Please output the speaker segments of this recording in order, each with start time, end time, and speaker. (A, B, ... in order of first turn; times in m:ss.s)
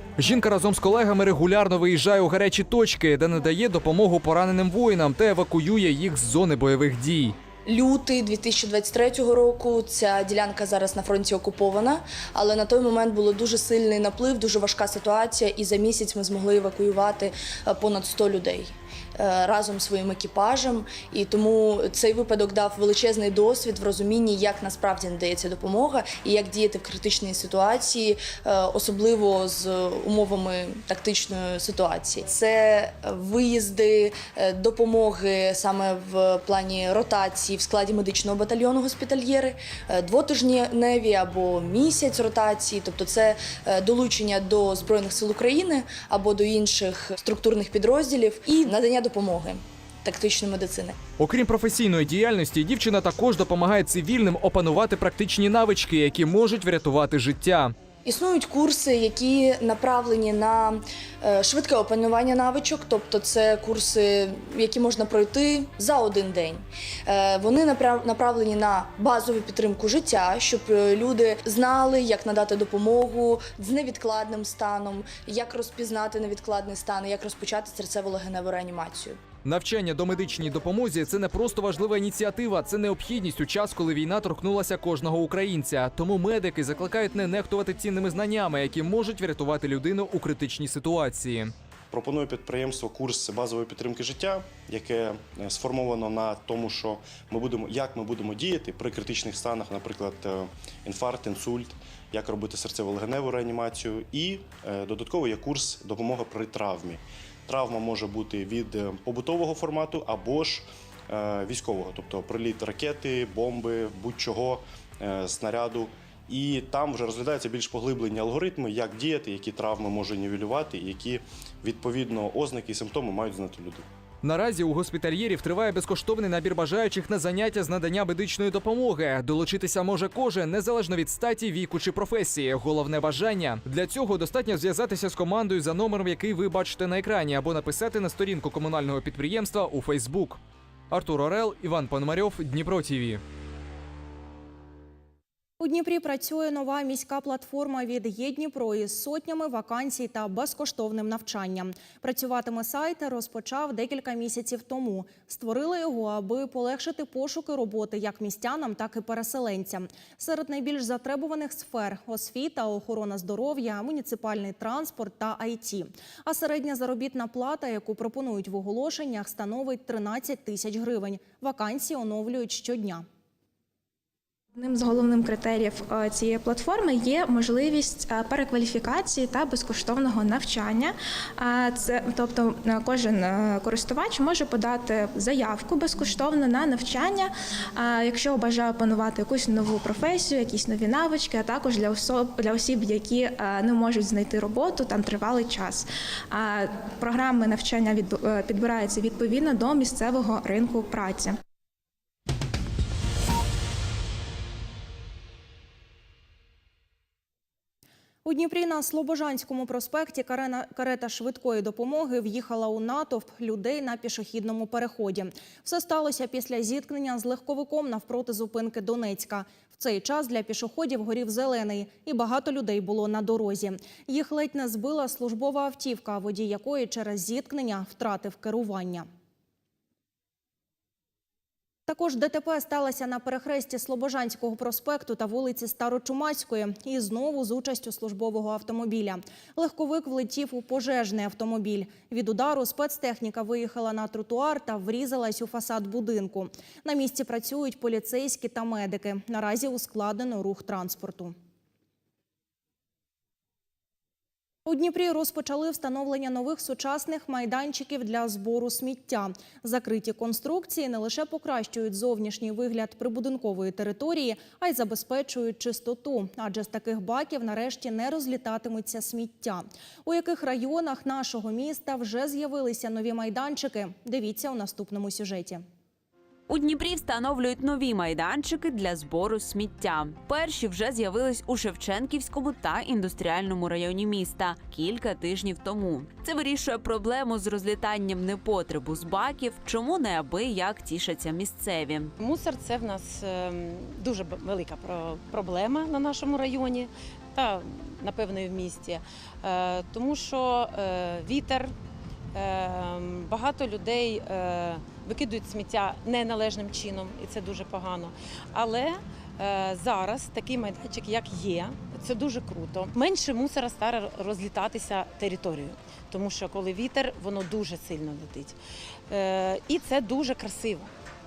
0:00.2-0:07.4 A
0:07.7-0:51.0 B
0:51.2-0:57.7 A
0:58.0-1:19.2 B
1:19.4-1:31.5 A
1:31.9-2:03.8 C
2:04.2-2:20.4 A
2:20.9-2:23.2 A
2:25.6-2:53.0 D
2:54.6-3:21.4 E
3:28.2-3:49.1 D
3:51.9-4:11.4 D
4:14.7-4:35.6 D
4:36.5-4:52.1 F
4:52.2-5:01.7 G
5:02.3-5:18.6 G
5:19.1-5:20.9 G